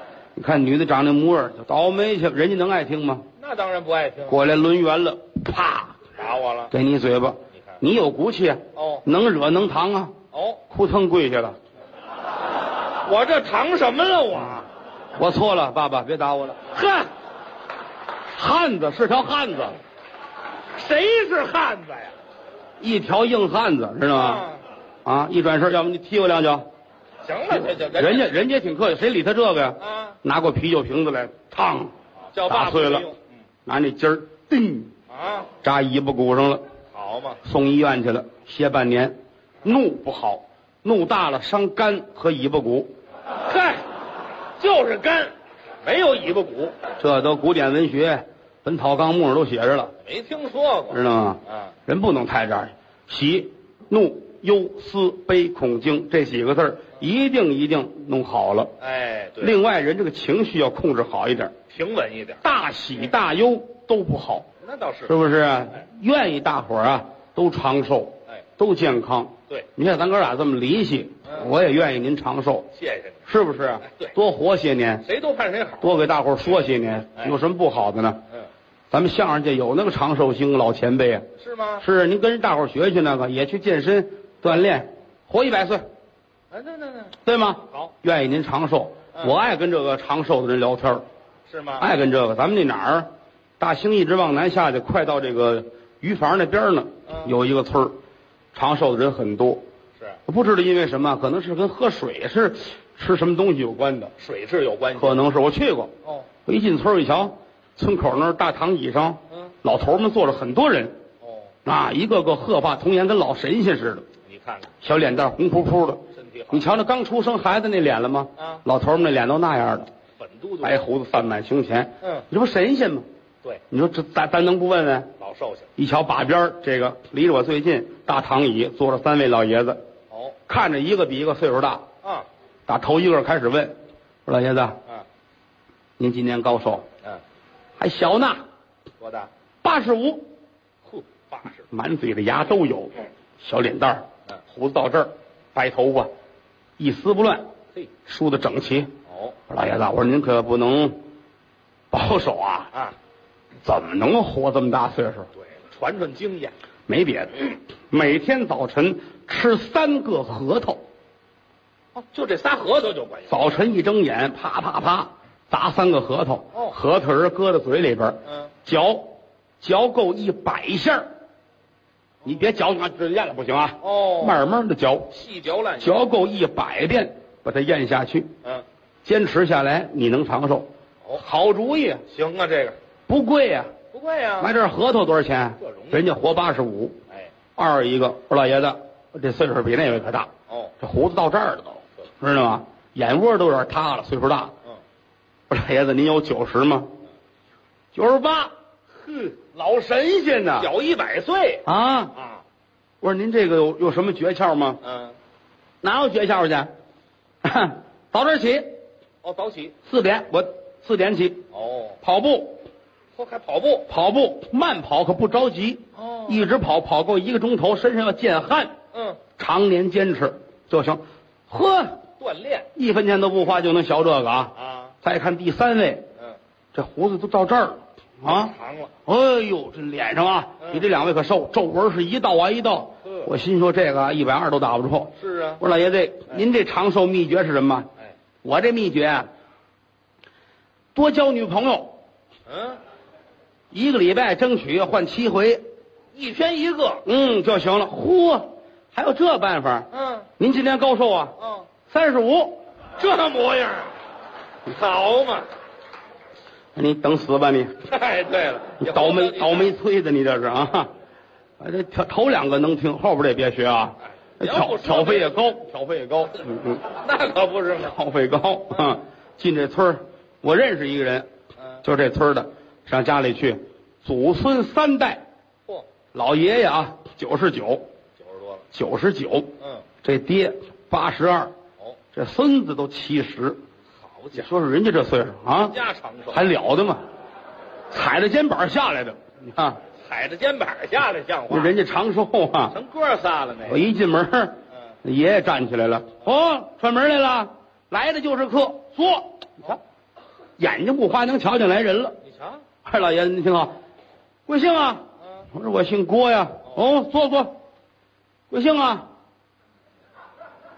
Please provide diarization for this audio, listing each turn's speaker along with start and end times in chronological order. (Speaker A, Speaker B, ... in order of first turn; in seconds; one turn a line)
Speaker A: 0.3-3.2
Speaker B: 3.4-4.4
Speaker A: 4.3-6.0
Speaker B: 6.2-6.7
Speaker A: 6.7-10.1
Speaker B: 8.8-9.1
Speaker B: 10.3-10.7
Speaker A: 10.7-11.6
Speaker B: 13.0-14.7
Speaker A: 15.2-16.8
Speaker B: 16.7-17.1
Speaker A: 18.3-19.8
Speaker B: 20.7-22.2
Speaker A: 22.8-24.5
Speaker B: 24.1-24.6
Speaker A: 25.1-26.7
Speaker B: 27.2-28.4
Speaker A: 27.7-33.1
Speaker B: 29.8-30.2
Speaker B: 32.3-33.3
Speaker A: 33.7-34.9
Speaker B: 35.1-35.5
Speaker A: 35.6-36.6
Speaker B: 36.9-37.4
Speaker A: 37.4-42.9
Speaker B: 43.4-43.8
Speaker B: 44.6-46.9
Speaker A: 47.0-49.9
Speaker B: 50.0-51.8
Speaker A: 50.9-58.7
Speaker B: 58.8-59.6
Speaker A: 59.4-61.5
Speaker B: 61.7-62.4
Speaker A: 62.4-64.5
Speaker B: 64.6-65.2
Speaker A: 65.1-72.7
Speaker B: 72.7-73.3
Speaker A: 73.3-75.0
Speaker B: 73.8-74.1
Speaker B: 75.0-77.4
Speaker A: 75.8-78.2
Speaker A: 78.9-81.3
Speaker B: 81.4-81.8
Speaker A: 81.8-85.8
Speaker B: 86.5-87.2
Speaker A: 87.2-91.0
Speaker B: 87.7-87.9
Speaker B: 91.5-91.9
Speaker A: 91.8-97.9
Speaker B: 97.1-97.3
Speaker A: 98.5-99.6
Speaker A: 100.3-104.1
Speaker B: 104.2-105.3
Speaker A: 105.0-105.9
Speaker B: 106.0-106.3
Speaker A: 106.5-110.9
Speaker B: 109.3-109.5
Speaker B: 111.2-111.5
Speaker A: 111.7-114.1
Speaker B: 114.3-114.8
Speaker A: 114.8-119.9
Speaker B: 116.1-116.7
Speaker B: 118.4-118.6
Speaker B: 120.2-120.9
Speaker A: 120.6-123.1
Speaker B: 122.0-122.3
Speaker A: 123.7-125.1
Speaker B: 125.2-125.7
Speaker A: 125.8-129.8
Speaker B: 130.1-130.4
Speaker A: 130.5-131.8
Speaker A: 132.7-134.8
Speaker A: 136.0-136.9
Speaker A: 137.8-138.4
Speaker B: 139.0-139.3
Speaker A: 139.6-140.3
Speaker B: 140.8-141.7
Speaker A: 141.7-146.1
Speaker A: 146.8-147.5
Speaker A: 148.1-148.9
Speaker B: 149.1-149.4
Speaker A: 149.5-151.0
Speaker A: 151.9-152.7
Speaker A: 153.6-155.3
Speaker B: 155.4-156.5
Speaker A: 156.9-160.8
Speaker B: 161.9-163.6
Speaker A: 163.3-171.1
Speaker B: 168.3-168.6
Speaker A: 172.2-175.1
Speaker B: 173.8-174.4
Speaker B: 175.1-176.1
Speaker A: 175.8-178.3
Speaker A: 179.1-182.0
Speaker B: 182.1-182.8
Speaker A: 183.1-183.7
Speaker B: 183.9-184.6
Speaker A: 184.4-187.0
Speaker B: 185.6-186.1
Speaker A: 187.6-190.3
Speaker B: 190.5-190.7
Speaker A: 190.8-194.5
Speaker A: 195.5-196.9
Speaker A: 197.9-198.5
Speaker B: 199.1-202.4
Speaker A: 200.0-200.7
Speaker A: 201.7-202.1
Speaker A: 203.0-204.8
Speaker B: 204.8-205.2
Speaker A: 205.8-206.7
Speaker A: 207.4-208.8
Speaker B: 209.2-209.8
Speaker A: 209.9-211.4
Speaker B: 211.5-212.0
Speaker A: 212.0-212.7
Speaker B: 213.2-213.9
Speaker A: 213.9-218.7
Speaker B: 215.9-216.4
Speaker B: 218.9-219.2
Speaker A: 219.4-222.0
Speaker B: 222.2-222.7
Speaker A: 222.8-226.1
Speaker B: 224.6-225.0
Speaker A: 226.7-228.5
Speaker B: 228.2-229.0
Speaker A: 229.1-237.9
Speaker B: 230.6-230.9
Speaker B: 235.2-235.6
Speaker A: 238.4-239.3
Speaker A: 240.9-242.0
Speaker B: 242.5-242.8
Speaker A: 243.7-245.6
Speaker B: 246.1-247.0
Speaker A: 247.1-251.3
Speaker B: 249.9-250.3
Speaker B: 251.4-251.7
Speaker A: 251.9-252.6
Speaker B: 253.0-253.9
Speaker B: 254.7-255.4
Speaker A: 256.8-257.8
Speaker B: 257.9-259.8
Speaker A: 258.8-260.9
Speaker A: 261.6-266.9
Speaker B: 264.4-265.6
Speaker B: 266.8-268.0
Speaker A: 267.8-271.3
Speaker A: 271.8-275.2
Speaker A: 276.1-277.8
Speaker B: 278.2-278.7
Speaker A: 278.7-279.5
Speaker B: 279.6-279.9
Speaker A: 280.0-281.5
Speaker A: 282.1-283.6
Speaker B: 284.1-284.5
Speaker A: 284.4-285.8
Speaker B: 285.6-286.5
Speaker A: 286.3-287.0
Speaker A: 287.9-289.8
Speaker B: 289.9-291.8
Speaker A: 291.5-292.8
Speaker B: 292.7-293.8
Speaker A: 293.6-299.8
Speaker A: 300.6-302.2
Speaker B: 302.2-302.7
Speaker A: 302.8-303.7
Speaker A: 304.5-307.6
Speaker A: 308.5-309.1